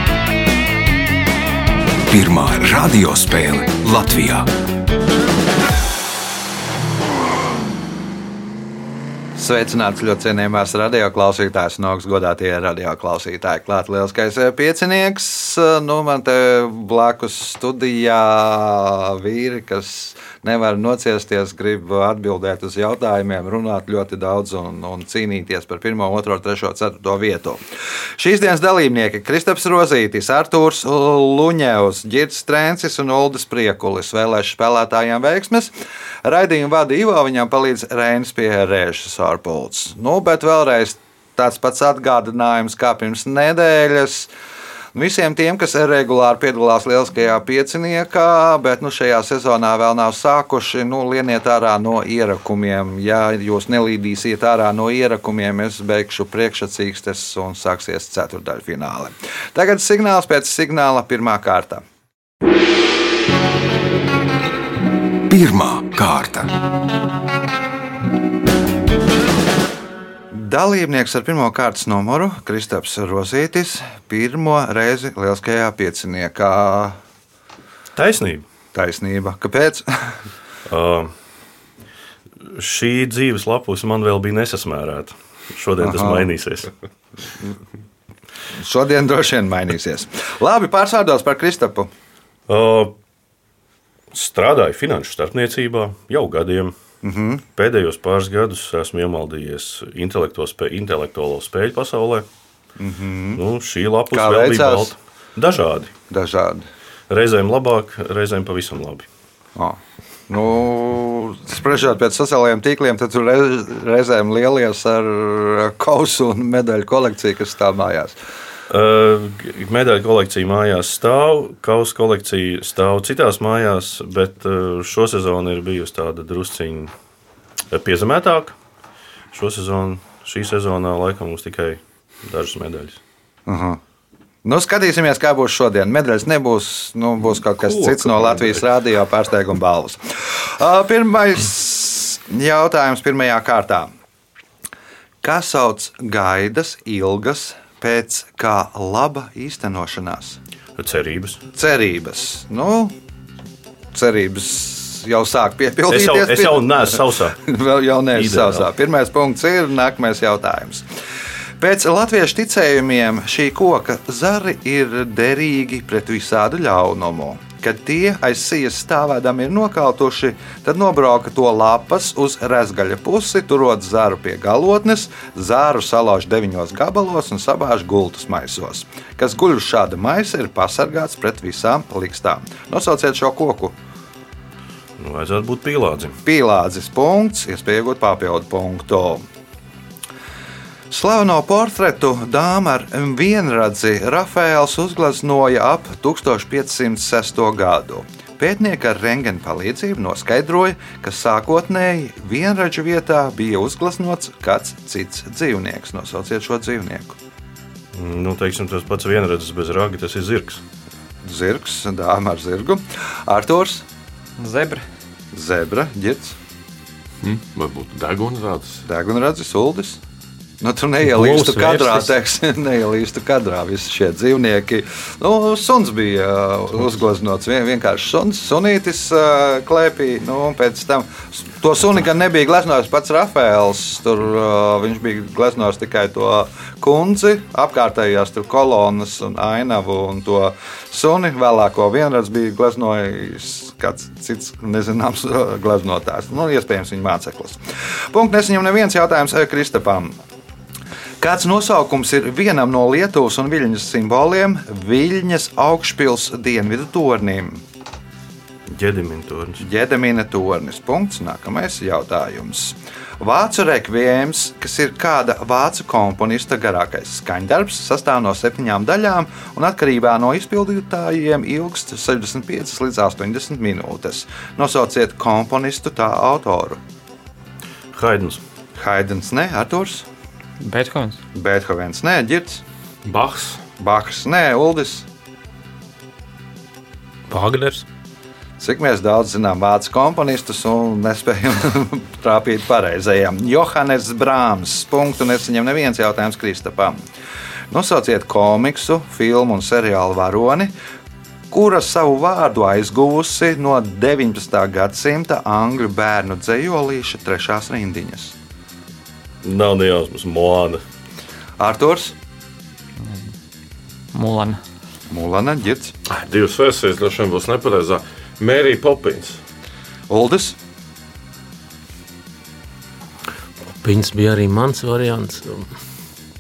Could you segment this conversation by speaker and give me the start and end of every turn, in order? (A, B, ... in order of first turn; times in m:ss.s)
0:02.1-0:04.5 A
0:09.3-0:27.6 B
0:28.2-0:35.7 B
0:36.2-0:44.3 B
0:44.9-1:01.8 B
1:05.3-1:06.5 A
1:10.3-1:17.0 B
1:17.9-1:18.4 C
1:18.7-1:20.2 B
1:20.7-1:21.1 C
1:22.4-1:26.7 C
1:25.8-1:26.3 B
1:28.5-1:31.9 B
1:32.5-1:32.9 C
1:34.1-1:36.7 C
1:37.0-1:37.4 B
1:37.5-1:42.3 C
1:42.8-1:43.4 B
1:43.4-1:45.9 C
1:44.1-1:44.9 B
1:46.1-1:46.6 B
1:47.1-1:49.1 C
1:49.6-1:58.2 B
1:58.7-2:06.9 C
2:07.7-2:08.6 C
2:09.3-2:13.0 C
2:13.4-2:13.8 B
2:14.4-2:23.9 B
2:17.6-2:18.6 C
2:25.2-2:30.4 B
2:30.8-2:31.4 C
2:31.5-2:32.9 B
2:33.9-2:40.8 B
2:35.9-2:37.4 C
2:38.1-2:38.6 C
2:41.6-3:03.7 B
3:05.0-3:06.2 C
3:06.2-3:09.2 B
3:10.9-3:27.2 B
3:27.9-3:30.6 C
3:31.2-3:33.8 B
3:34.4-3:34.8 D
3:35.3-3:36.4 B
3:37.2-3:38.8 E
3:38.8-3:40.0 B
3:40.6-4:10.1 B
3:41.0-3:42.0 F
4:11.2-4:17.6 B
4:18.7-4:19.6 C
4:19.6-4:36.8 B
4:37.9-4:38.4 C
4:38.7-4:40.0 B
4:40.6-4:41.2 D
4:41.3-4:42.6 B
4:43.0-4:43.6 E
4:43.8-4:45.1 B
4:47.3-4:47.8 F
4:48.6-4:57.0 B
4:57.7-5:00.7 B
5:01.5-5:08.3 B
5:09.4-5:10.8 C
5:11.6-5:12.2 B
5:13.0-5:13.3 D
5:14.1-5:14.6 D
5:15.1-5:15.9 B
5:16.1-5:19.4 E
5:20.1-5:20.6 B
5:23.8-5:25.7 F